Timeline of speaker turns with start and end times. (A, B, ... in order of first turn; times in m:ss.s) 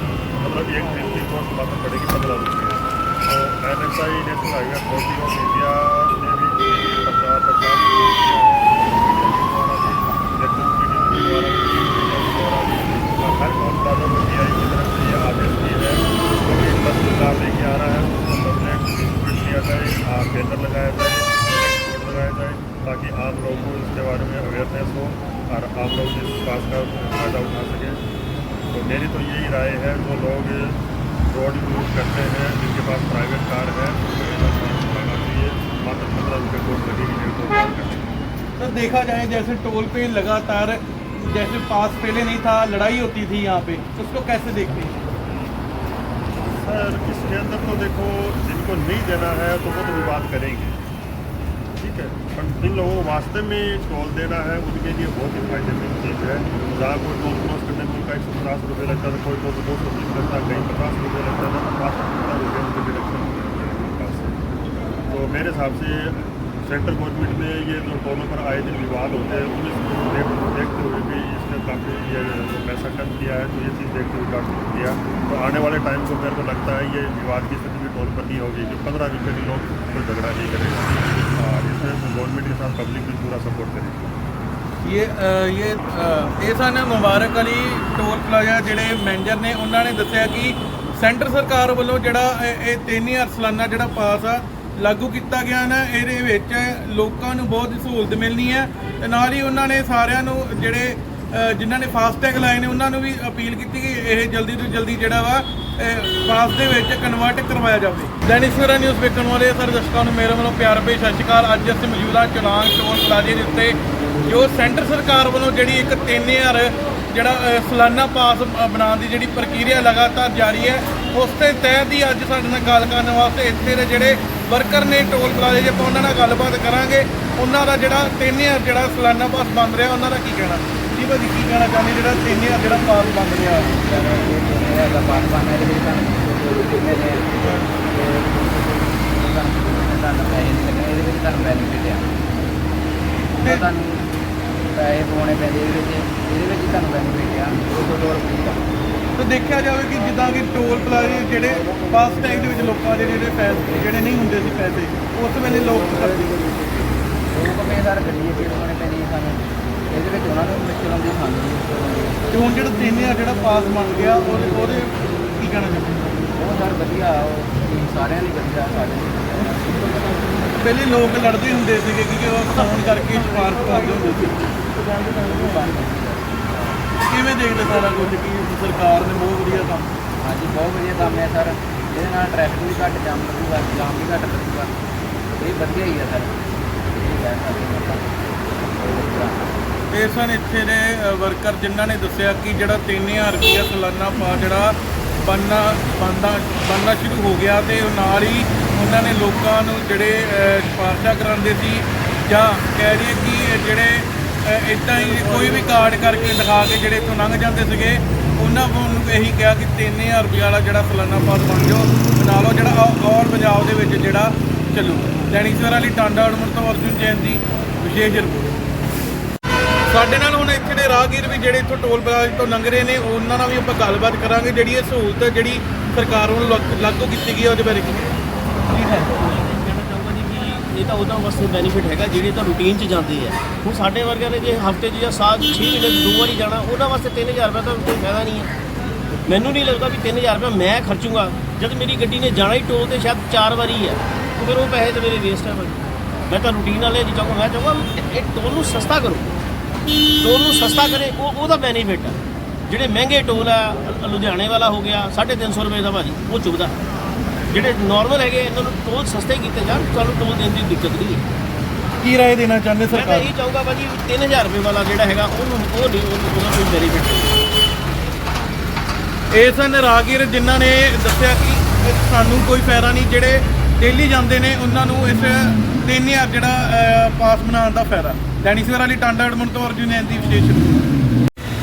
0:00.3-0:28.0 A
0:28.7-0:38.1 A
0:38.6-0:44.9 B
0:46.5-0:50.8 A
0:51.8-1:04.4 A
1:05.1-1:24.1 A
1:24.8-2:13.7 B
2:13.6-2:22.1 C
2:17.4-2:17.7 B
2:23.4-2:24.1 C
2:24.7-2:28.5 C
2:29.1-2:36.5 B
2:37.3-2:42.2 C
2:42.3-2:46.1 B
2:46.4-2:50.3 C
2:50.6-2:54.4 B
2:54.8-2:56.8 C
2:57.1-2:59.9 B
3:00.2-3:04.7 C
3:05.4-3:06.4 C
3:07.0-3:08.1 C
3:08.8-3:09.4 C
3:09.9-3:38.6 B
3:39.9-3:48.1 B
3:48.7-3:49.1 B
3:49.2-3:58.5 D
3:59.3-4:09.3 D
4:10.2-4:12.2 D
4:12.7-4:16.7 D
4:17.5-4:21.2 D
4:22.0-4:23.3 B
4:22.9-4:27.3 D
4:29.3-4:40.8 B